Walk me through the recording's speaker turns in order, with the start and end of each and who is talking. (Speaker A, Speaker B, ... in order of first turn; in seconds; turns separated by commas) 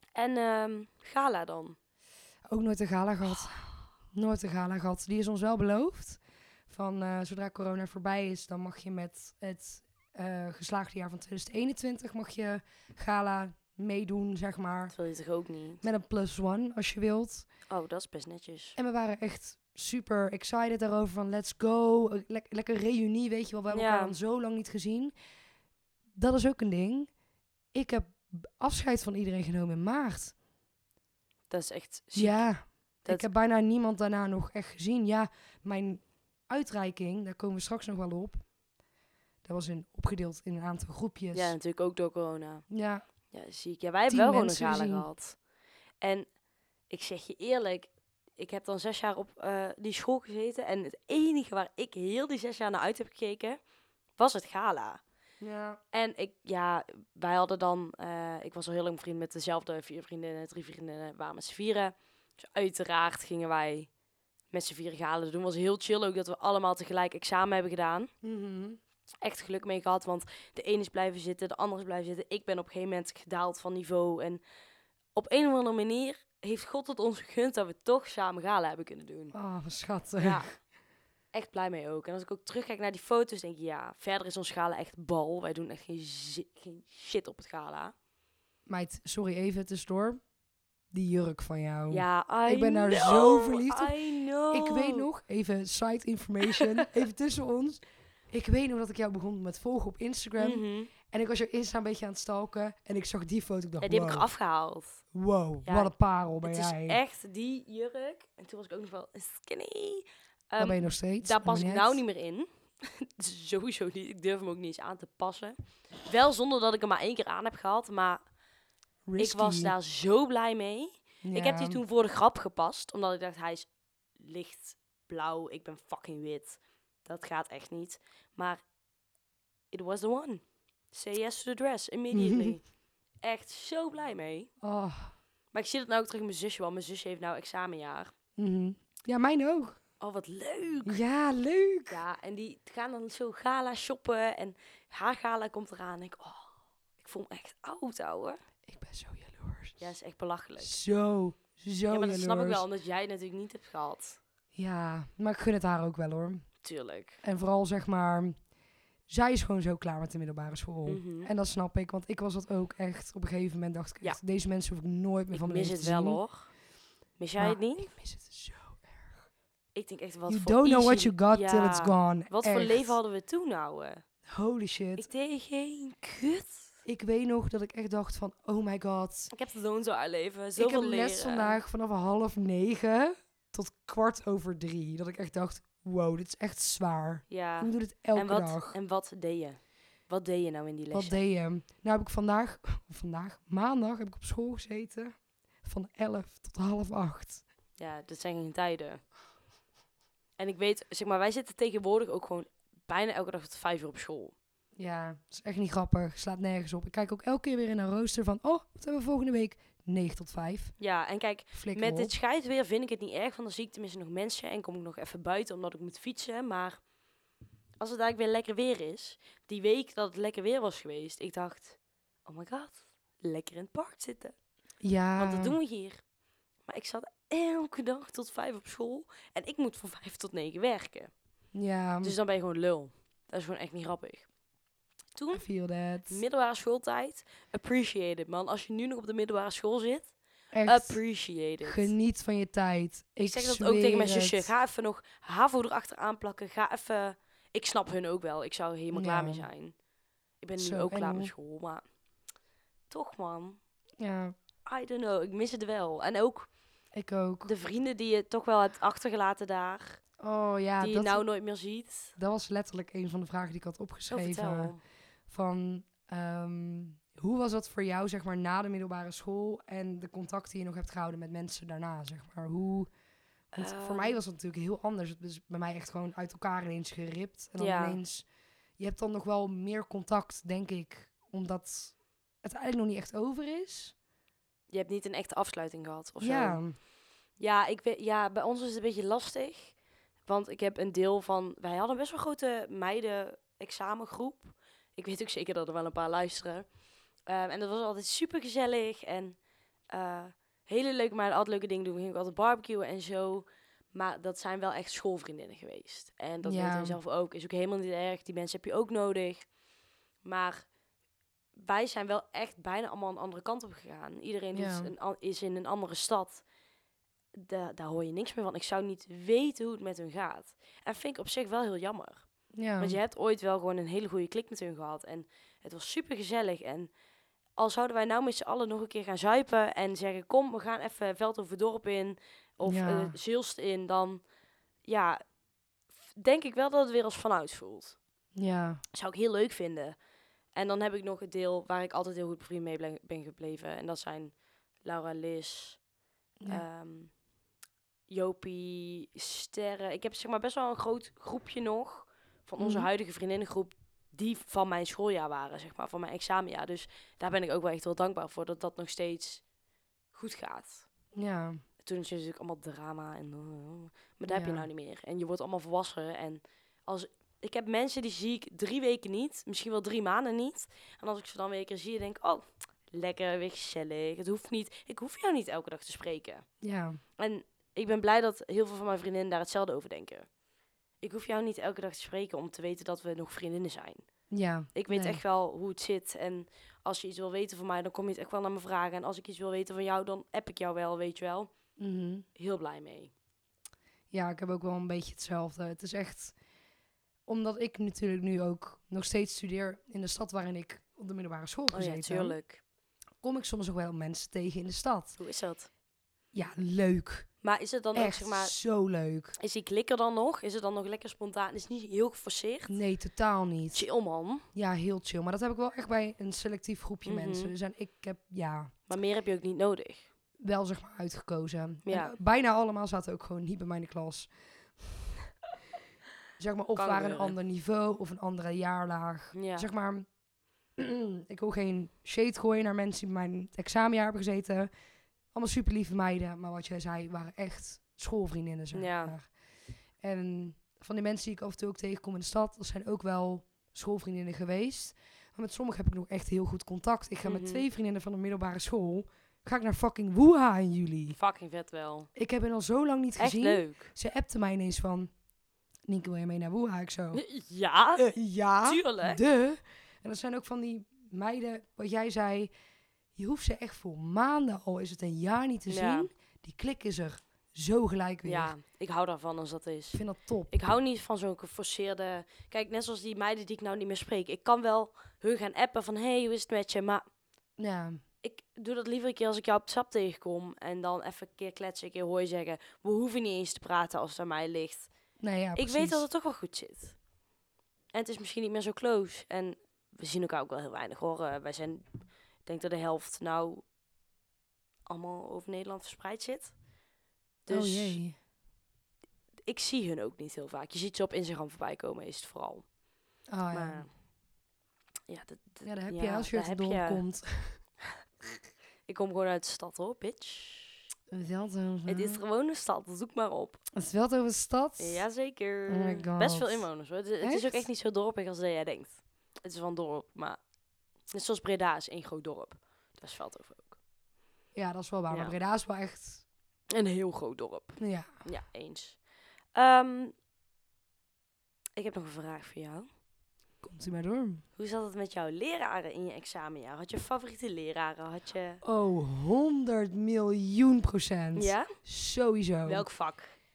Speaker A: 0.1-1.8, Speaker B: 2.5-14.9, Speaker A: 14.9-15.8, Speaker B: 15.8-17.5, Speaker A: 17.7-18.8, Speaker B: 18.8-25.1, Speaker A: 23.7-24.2, Speaker B: 26.2-27.1, Speaker B: 27.7-30.3, Speaker A: 31.5-32.4, Speaker B: 32.1-38.4, Speaker B: 39.4-41.6, Speaker A: 41.3-42.7, Speaker B: 42.7-43.0, Speaker A: 43.3-45.4, Speaker B: 44.1-45.1, Speaker A: 46.0-46.3, Speaker A: 46.9-53.6, Speaker A: 54.2-55.0, Speaker B: 55.4-55.8, Speaker A: 55.9-63.9, Speaker A: 64.5-68.1, Speaker B: 68.2-68.8, Speaker A: 69.2-74.4, Speaker A: 75.2-79.3, Speaker B: 79.3-80.5, Speaker A: 80.2-80.5, Speaker A: 81.3-87.9, Speaker B: 88.7-90.2, Speaker B: 90.9-94.0, Speaker A: 91.9-95.1, Speaker B: 94.5-104.3, Speaker A: 96.5-96.8, Speaker A: 100.4-100.9, Speaker A: 103.8-105.0, Speaker B: 105.1-107.0, Speaker A: 105.7-118.2, Speaker B: 110.6-112.0, Speaker B: 119.1-119.7, Speaker A: 119.2-128.6, Speaker B: 121.2-121.8, Speaker A: 129.7-132.6, Speaker B: 132.1-132.6, Speaker A: 133.2-134.5, Speaker B: 134.6-135.1, Speaker A: 135.5-138.1, Speaker B: 138.4-139.8, Speaker A: 140.0-141.0, Speaker B: 140.9-142.0, Speaker A: 141.9-148.4, Speaker B: 148.7-149.9, Speaker A: 149.8-150.8, Speaker B: 150.6-152.6, Speaker A: 151.9-154.2, Speaker B: 154.5-156.4, Speaker A: 156.6-157.2, Speaker B: 157.2-158.4, Speaker B: 159.1-166.2, Speaker A: 160.9-161.3, Speaker A: 165.3-166.5, Speaker A: 167.2-167.9, Speaker B: 167.4-169.2, Speaker A: 169.8-174.0, Speaker B: 170.3-173.0, Speaker B: 174.3-175.1, Speaker A: 175.0-176.7, Speaker B: 176.9-179.3, Speaker A: 179.3-181.6, Speaker B: 180.6-188.8, Speaker A: 187.3-191.2, Speaker B: 190.9-197.4, Speaker A: 197.8-199.0, Speaker A: 200.4-204.3, Speaker B: 204.8-210.7, Speaker A: 210.8-216.8, Speaker B: 211.5-212.1, Speaker A: 217.8-224.3, Speaker B: 224.8-225.6, Speaker A: 225.2-226.0, Speaker A: 226.7-231.1, Speaker B: 231.6-232.2, Speaker A: 232.0-234.3, Speaker A: 235.2-235.4, Speaker B: 235.3-236.2, Speaker A: 236.1-240.1, Speaker B: 240.5-241.0, Speaker A: 240.7-241.9, Speaker B: 241.6-244.5, Speaker A: 243.2-249.8, Speaker B: 248.9-249.5, Speaker A: 250.4-251.8, Speaker B: 250.6-251.3, Speaker A: 252.9-253.6, Speaker B: 254.0-254.3, Speaker A: 254.7-256.5, Speaker B: 256.9-257.5, Speaker A: 257.4-260.0, Speaker B: 260.2-261.2, Speaker A: 260.8-262.1, Speaker B: 262.2-264.7, Speaker A: 264.1-264.8, Speaker B: 265.3-272.9, Speaker B: 273.5-278.3, Speaker A: 273.6-274.2, Speaker A: 277.6-278.0, Speaker B: 278.8-283.9, Speaker A: 284.7-286.6, Speaker B: 286.2-286.8, Speaker A: 287.4-289.8, Speaker A: 290.3-296.7, Speaker A: 297.3-299.4, Speaker A: 299.9-309.5, Speaker B: 306.4-307.0, Speaker A: 310.2-310.7, Speaker A: 311.6-316.4, Speaker B: 314.5-314.9, Speaker A: 317.4-322.2, Speaker B: 322.6-323.0, Speaker A: 322.8-326.9, Speaker A: 327.6-334.2, Speaker B: 332.6-333.2, Speaker A: 334.9-335.2, Speaker A: 336.1-338.0, Speaker B: 338.4-338.8, Speaker A: 338.9-340.0, Speaker A: 340.6-344.3, Speaker A: 344.8-345.8, Speaker A: 346.5-347.1, Speaker A: 348.1-359.4, Speaker B: 352.6-352.9, Speaker A: 360.1-360.9, Speaker B: 361.1-361.6, Speaker A: 361.8-376.4, Speaker B: 364.3-364.7, Speaker B: 376.6-377.0, Speaker A: 377.2-380.3, Speaker A: 381.0-384.0, Speaker B: 384.3-385.2, Speaker A: 384.8-391.5, Speaker B: 391.8-392.3, Speaker A: 392.4-393.1, Speaker B: 394.1-396.4, Speaker B: 397.3-402.4, Speaker A: 401.7-402.6, Speaker B: 403.2-405.2, Speaker A: 405.2-405.7, Speaker B: 406.3-407.3, Speaker A: 407.4-408.5, Speaker B: 407.9-409.4, Speaker A: 409.4-412.7, Speaker B: 412.7-413.9, Speaker A: 413.7-414.5, Speaker B: 414.5-418.7, Speaker A: 417.1-417.5, Speaker A: 418.9-420.1, Speaker B: 420.4-424.3, Speaker A: 421.9-422.1, Speaker B: 426.4-430.1, Speaker A: 426.8-427.4, Speaker A: 429.3-429.7, Speaker B: 430.8-434.7, Speaker B: 435.3-439.3, Speaker A: 438.7-439.1, Speaker B: 440.0-451.2, Speaker A: 447.2-447.6, Speaker A: 451.1-452.1, Speaker B: 452.2-455.1, Speaker A: 453.2-453.9, Speaker B: 455.9-457.2, Speaker A: 457.1-458.1, Speaker B: 458.0-462.5, Speaker A: 458.6-459.2, Speaker B: 463.2-468.6, Speaker A: 465.7-466.1, Speaker A: 468.2-477.1, Speaker B: 469.9-470.6, Speaker B: 477.6-478.0, Speaker A: 478.2-484.9, Speaker B: 485.2-486.1, Speaker A: 485.6-487.0, Speaker A: 487.9-491.9, Speaker A: 492.5-493.6, Speaker A: 494.9-496.5, Speaker A: 497.5-498.0, Speaker B: 497.5-498.2, Speaker A: 499.4-502.6, Speaker B: 503.3-503.9, Speaker A: 503.5-503.9, Speaker A: 505.1-507.0, Speaker B: 505.6-507.6, Speaker A: 508.9-510.9, Speaker B: 511.1-512.2, Speaker A: 511.9-513.6, Speaker B: 513.7-515.0, Speaker A: 514.8-520.4, Speaker B: 515.7-516.7, Speaker B: 517.2-517.7, Speaker A: 521.1-523.8, Speaker B: 524.5-526.2, Speaker A: 525.1-525.4, Speaker A: 526.7-529.0, Speaker B: 527.8-528.3, Speaker A: 529.5-530.1, Speaker A: 531.8-532.9, Speaker B: 533.6-534.4, Speaker A: 534.6-538.6, Speaker B: 538.6-542.9, Speaker A: 541.4-541.7, Speaker A: 542.7-543.3